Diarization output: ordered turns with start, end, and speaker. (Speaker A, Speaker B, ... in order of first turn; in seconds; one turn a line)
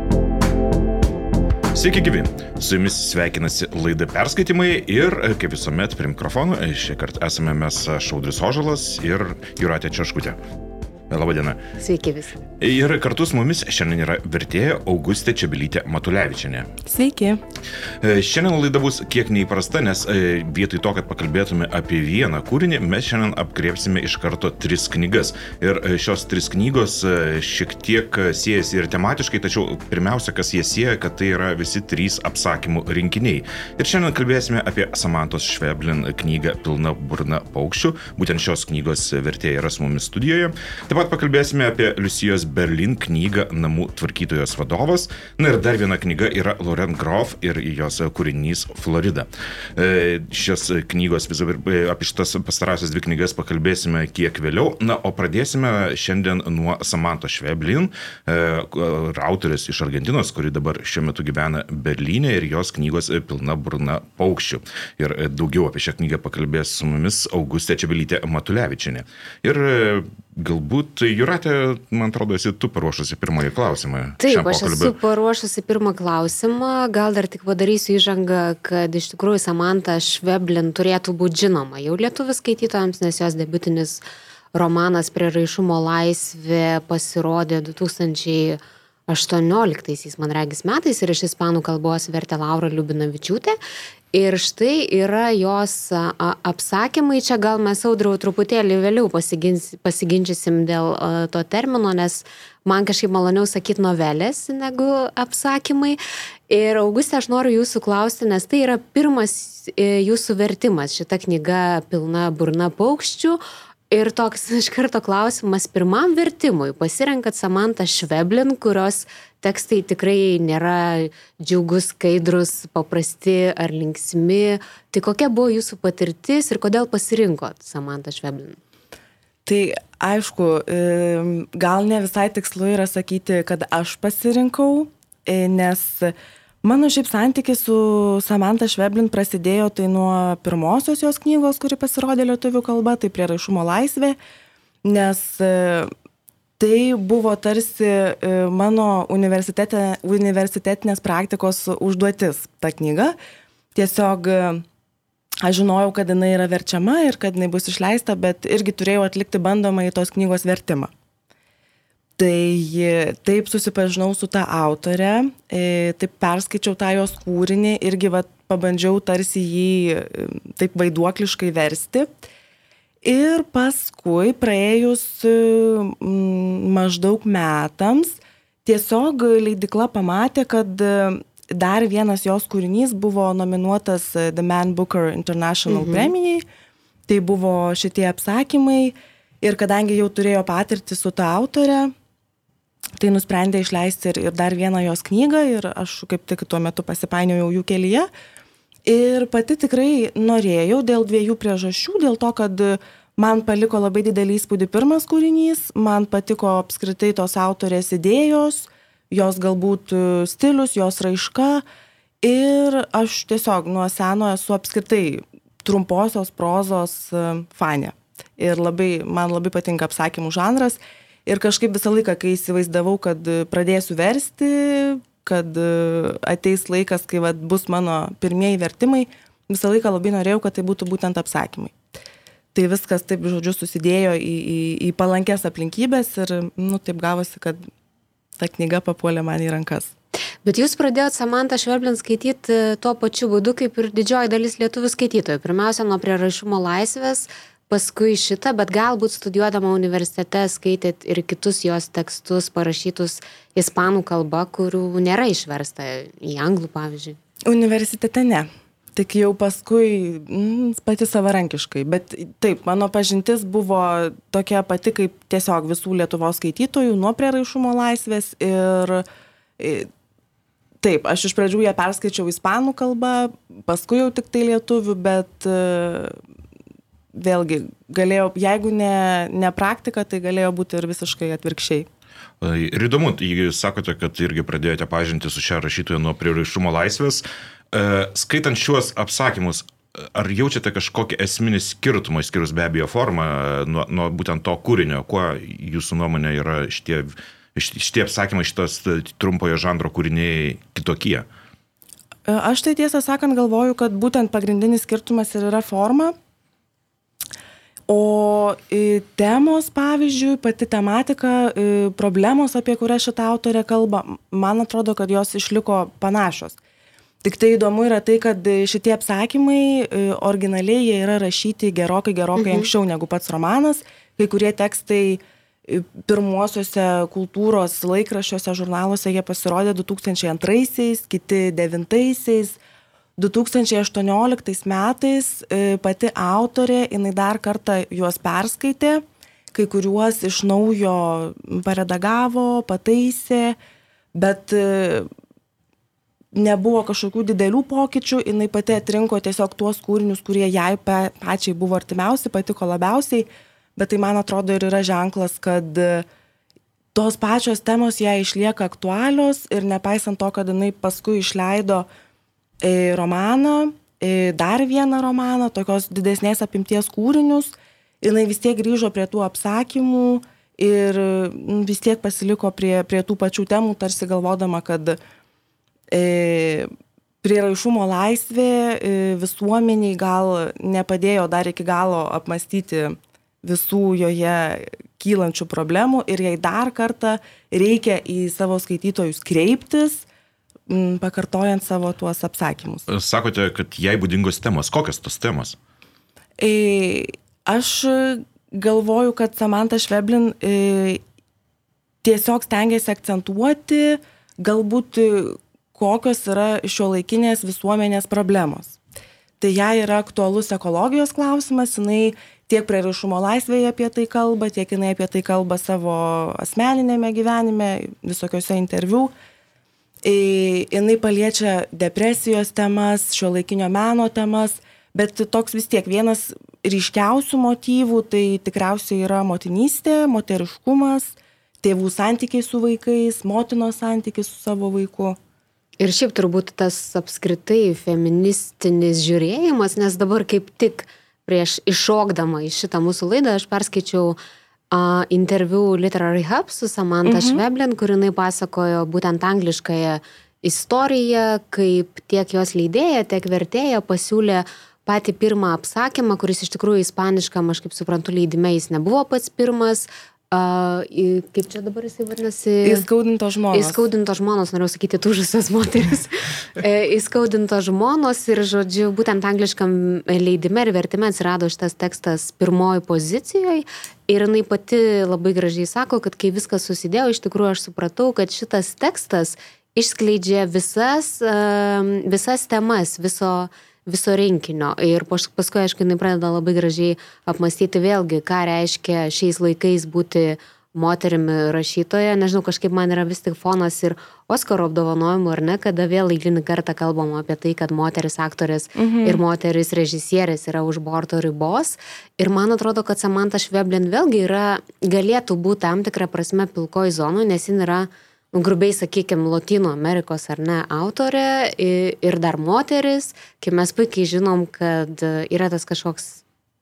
Speaker A: 1.7-10.4
Speaker A: 11.1-11.6
Speaker B: 11.8-12.4
Speaker A: 12.6-16.7
Speaker C: 16.9-17.4
Speaker A: 18.0-74.9
Speaker B: 74.2-84.0
Speaker B: 84.5-93.6
Speaker B: 94.1-106.0
Speaker B: 106.5-128.6
Speaker C: 129.5-144.2
Speaker C: 144.8-145.9
Speaker C: 146.6-153.2
Speaker C: 153.8-154.7
Speaker C: 155.4-160.9
Speaker C: 162.2-172.1
Speaker C: 173.0-186.4
Speaker B: 185.7-186.1
Speaker C: 187.1-191.9
Speaker C: 193.0-198.1
Speaker C: 198.8-211.6
Speaker C: 212.2-231.8
Speaker C: 232.5-237.6
Speaker C: 238.4-239.9
Speaker B: 240.4-257.2
Speaker C: 257.5-269.0
Speaker C: 269.6-269.9
Speaker C: 270.8-276.2
Speaker C: 277.1-281.9
Speaker A: 282.4-301.3
Speaker C: 302.3-306.1
Speaker C: 307.9-316.6
Speaker C: 317.2-332.6
Speaker B: 322.4-322.7
Speaker C: 333.2-343.6
Speaker C: 344.1-345.1
Speaker C: 346.3-356.1
Speaker C: 356.9-361.9
Speaker C: 362.6-375.0
Speaker C: 375.9-376.7
Speaker C: 377.2-390.1
Speaker C: 390.7-392.9
Speaker A: 392.9-395.6
Speaker C: 396.4-401.0
Speaker C: 402.0-408.8
Speaker C: 409.4-419.1
Speaker C: 420.0-435.2
Speaker B: 435.8-444.2
Speaker B: 444.7-462.9
Speaker C: 447.1-447.4
Speaker C: 462.6-463.8
Speaker B: 463.5-516.2
Speaker C: 498.8-499.2